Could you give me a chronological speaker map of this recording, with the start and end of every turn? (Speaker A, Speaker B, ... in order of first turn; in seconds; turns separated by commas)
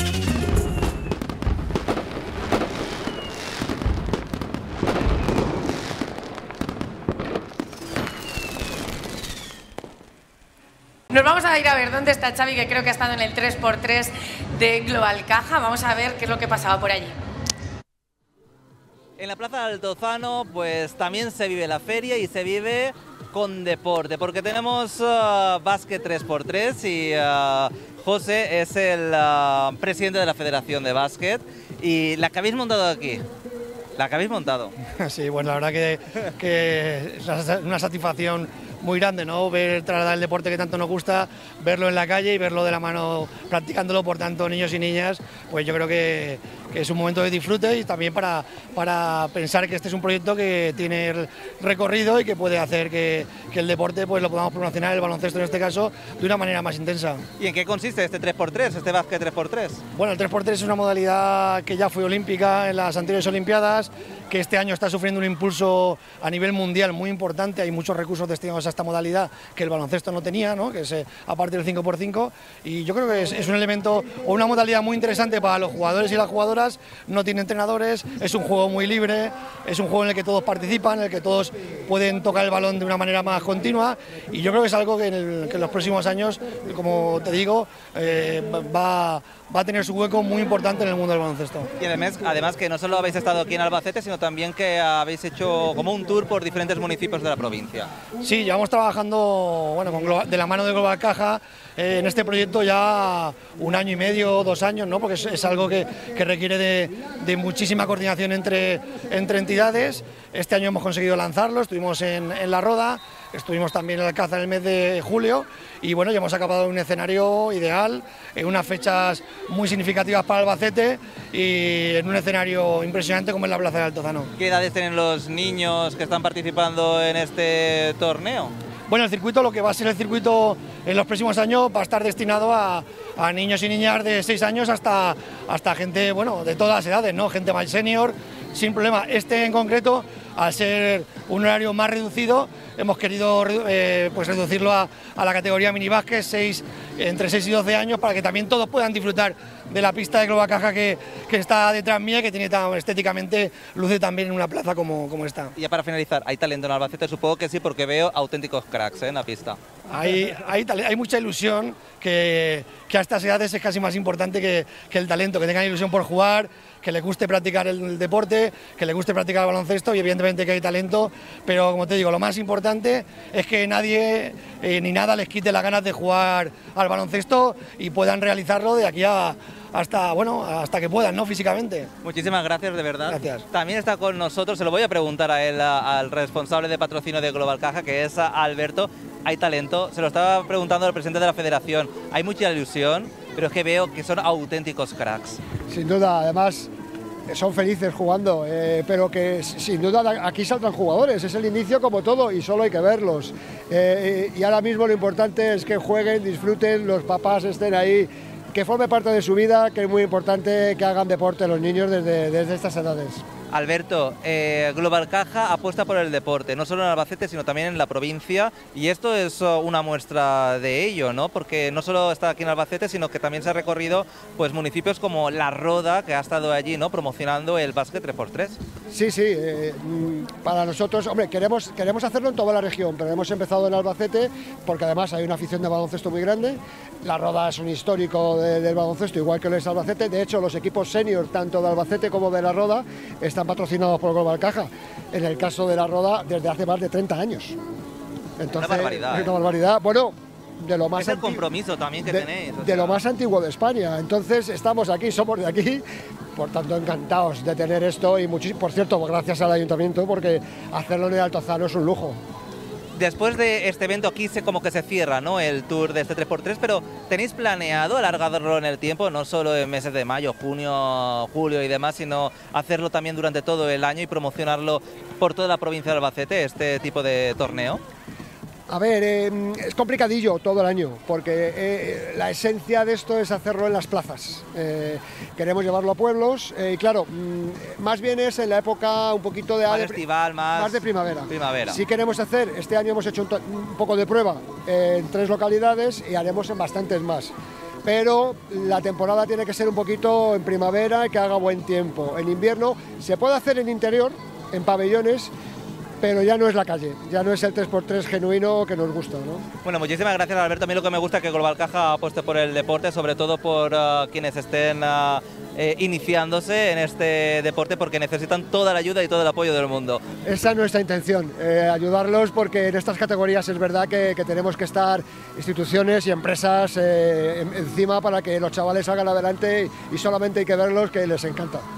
Speaker A: 11.1-17.2, Speaker B: 19.2-33.3, Speaker B: 34.0-34.7, Speaker C: 35.0-57.2, Speaker B: 57.4-59.8, Speaker C: 59.9-91.7, Speaker B: 91.8-97.9, Speaker C: 98.2-124.3, Speaker B: 124.4-128.5, Speaker C: 128.9-155.6, Speaker B: 155.6-159.6, Speaker C: 159.9-181.9, Speaker B: 182.0-195.4, Speaker C: 183.1-183.5, Speaker D: 195.7-196.7, Speaker D: 197.3-213.2, Speaker B: 213.5-228.6, Speaker D: 228.9-247.6, Speaker D: 248.4-251.4, Speaker B: 248.5-249.3, Speaker B: 251.0-253.0, Speaker D: 252.1-255.8, Speaker D: 256.4-262.2, Speaker B: 262.9-277.8, Speaker D: 278.7-290.0, Speaker B: 289.7-291.8, Speaker D: 290.5-297.3, Speaker D: 297.9-305.3, Speaker D: 306.0-309.4, Speaker B: 309.6-320.0, Speaker D: 320.2-331.7